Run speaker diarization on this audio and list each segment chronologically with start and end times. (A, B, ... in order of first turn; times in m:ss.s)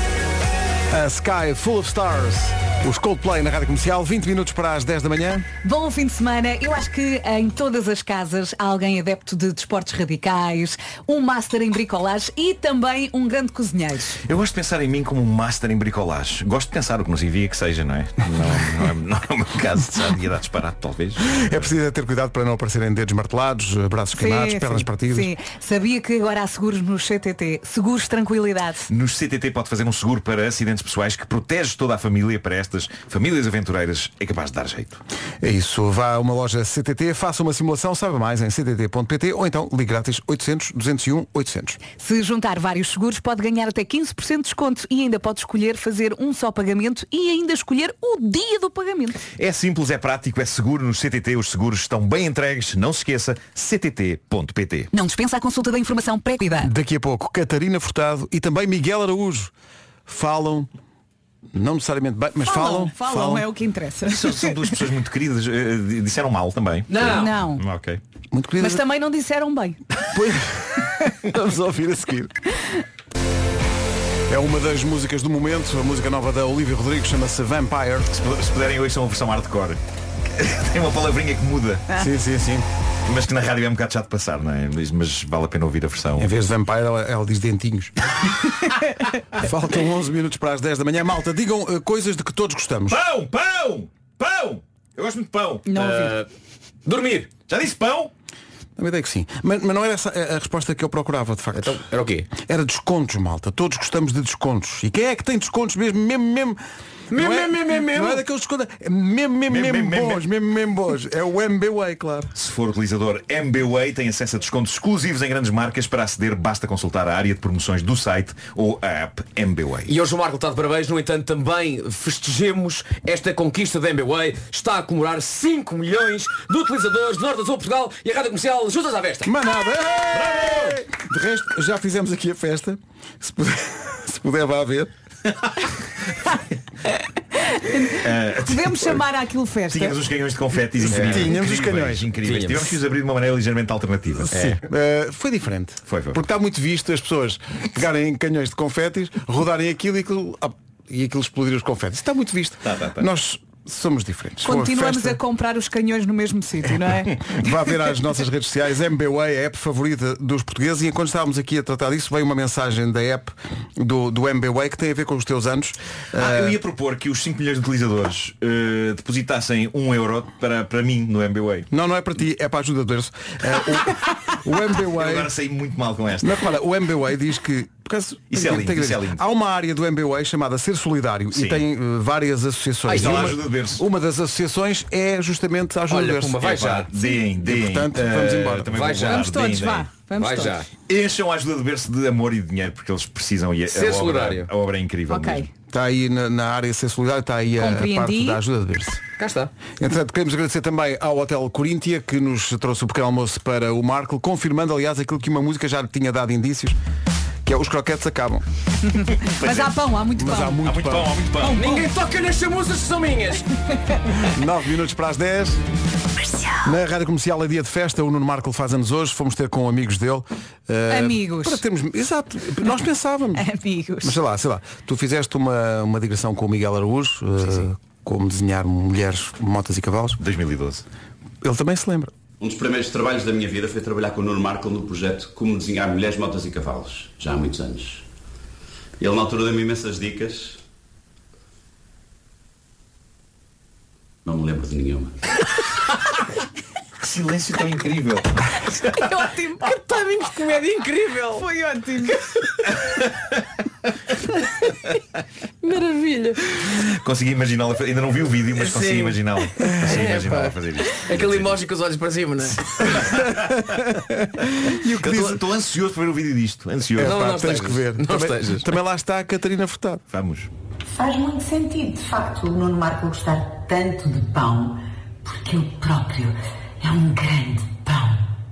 0:00.9-0:05.5 A
0:05.6-0:14.2 B
0:14.2-0:21.7 C
0:21.2-0:25.3 A
0:24.2-0:28.9 B
0:28.9-0:35.0 C
0:35.4-0:41.8 A
0:42.0-0:49.2 B
0:49.4-0:54.9 C
0:54.9-0:56.7 B
0:56.6-0:59.5 A
1:00.0-1:00.7 A
1:01.5-1:03.4 A
1:02.4-1:04.6 B
1:04.1-1:08.0 C
1:06.9-1:07.3 D
1:07.1-1:07.6 B
1:08.3-1:08.8 A
1:08.6-1:09.8 B
1:10.1-1:12.3 A
1:14.3-1:18.1 A
1:18.1-1:21.9 C
1:21.9-1:22.6 A
1:23.0-1:26.3 C
1:26.2-1:27.9 A
1:29.3-1:33.0 A
1:32.9-1:35.7 C
1:35.6-1:36.2 B
1:35.7-1:36.3 D
1:36.8-1:37.3 D
1:37.5-1:38.1 C
1:38.8-1:46.6 A
1:41.5-1:42.3 D
1:47.1-1:48.2 D
1:47.1-1:52.3 A
1:49.5-1:50.2 C
1:52.3-1:59.9 C
1:59.9-2:09.3 D
2:09.2-2:14.9 A
2:10.2-2:10.7 C
2:17.4-2:20.0 B
2:17.9-2:19.0 C
2:19.7-2:24.4 C
2:20.9-2:21.3 D
2:20.9-2:22.2 A
2:22.2-2:22.7 D
2:24.2-2:35.2 A
2:24.3-2:24.6 D
2:25.9-2:26.2 C
2:32.6-2:33.0 C
2:34.4-2:37.2 B
2:37.2-2:46.6 A
2:46.2-2:51.7 C
2:51.7-2:55.3 A
2:54.8-2:56.4 C
2:56.2-3:06.4 A
2:58.3-2:59.2 C
3:01.3-3:01.6 C
3:02.8-3:03.3 D
3:02.9-3:03.8 C
3:05.9-3:06.9 D
3:06.4-3:09.9 C
3:07.0-3:09.0 A
3:08.7-3:09.3 D
3:09.0-3:10.6 B
3:10.2-3:10.7 D
3:10.9-3:15.5 C
3:13.7-3:14.5 D
3:15.1-3:15.5 B
3:15.7-3:19.0 A
3:17.6-3:18.4 B
3:19.2-3:19.5 D
3:19.8-3:26.8 A
3:27.4-3:28.4 A
3:28.9-3:30.7 B
3:29.2-3:29.8 C
3:30.2-3:31.2 A
3:30.6-3:31.7 C
3:31.4-3:31.9 B
3:31.5-3:33.5 D
3:34.2-3:35.6 A
3:36.6-3:43.5 A
3:40.9-3:41.6 B
3:43.3-3:44.2 B
3:44.0-3:50.2 A
3:50.2-3:50.8 C
3:51.4-3:52.1 A
3:52.4-3:58.0 E
3:59.0-4:00.6 E
4:04.2-4:05.2 E
4:07.0-4:08.3 C
4:09.0-4:12.2 B
4:10.5-4:11.4 D
4:12.8-4:13.1 C
4:15.6-4:16.4 D
4:16.7-4:21.7 C
4:18.5-4:23.0 D
4:19.7-4:20.0 A
4:22.8-4:23.4 C
4:23.0-4:25.4 A
4:25.0-4:27.6 C
4:26.9-4:30.0 A
4:27.0-4:28.7 D
4:30.1-4:30.5 C
4:30.9-4:38.3 F